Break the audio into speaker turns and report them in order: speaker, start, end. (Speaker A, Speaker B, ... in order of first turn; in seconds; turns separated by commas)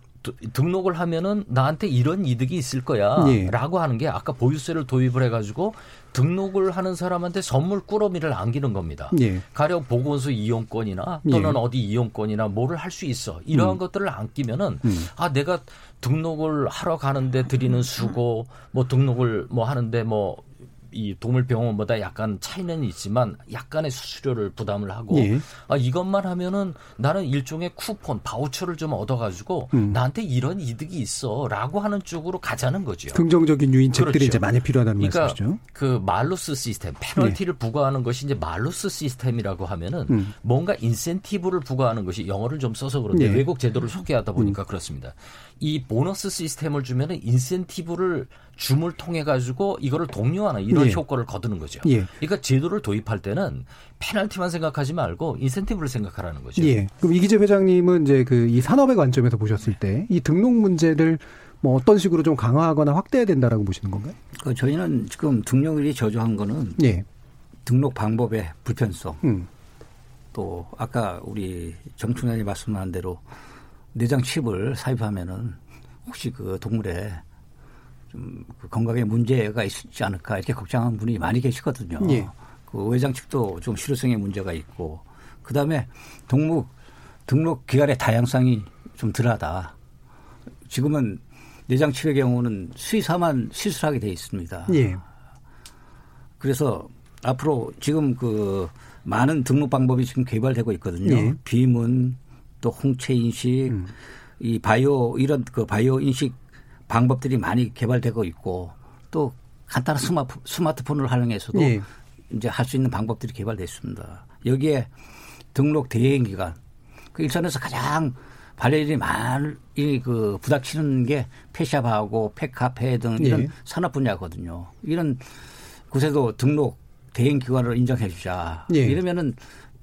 Speaker A: 0.2-33.3, Speaker B: 3.2-3.5, Speaker B: 9.1-9.4, Speaker B: 11.2-11.6, Speaker B: 13.5-13.8, Speaker B: 14.8-15.1, Speaker B: 25.1-25.4, Speaker B: 29.7-30.0, Speaker B: 33.1-35.6, Speaker A: 33.9-56.8, Speaker B: 43.1-43.5, Speaker B: 50.7-51.0, Speaker B: 51.8-52.1, Speaker B: 56.6-64.2, Speaker C: 64.4-66.8, Speaker B: 66.8-67.0, Speaker C: 67.7-69.2, Speaker B: 69.2-69.5, Speaker C: 70.3-73.2, Speaker C: 73.9-77.2, Speaker C: 78.1-86.7, Speaker B: 82.0-82.3, Speaker C: 87.3-89.8, Speaker C: 90.7-94.9, Speaker B: 94.7-95.0, Speaker C: 96.4-106.4, Speaker B: 101.0-101.4, Speaker C: 106.9-114.9, Speaker B: 111.5-111.9, Speaker C: 115.5-116.6, Speaker C: 117.1-125.2, Speaker B: 123.2-123.5, Speaker C: 125.9-129.4, Speaker B: 128.7-129.0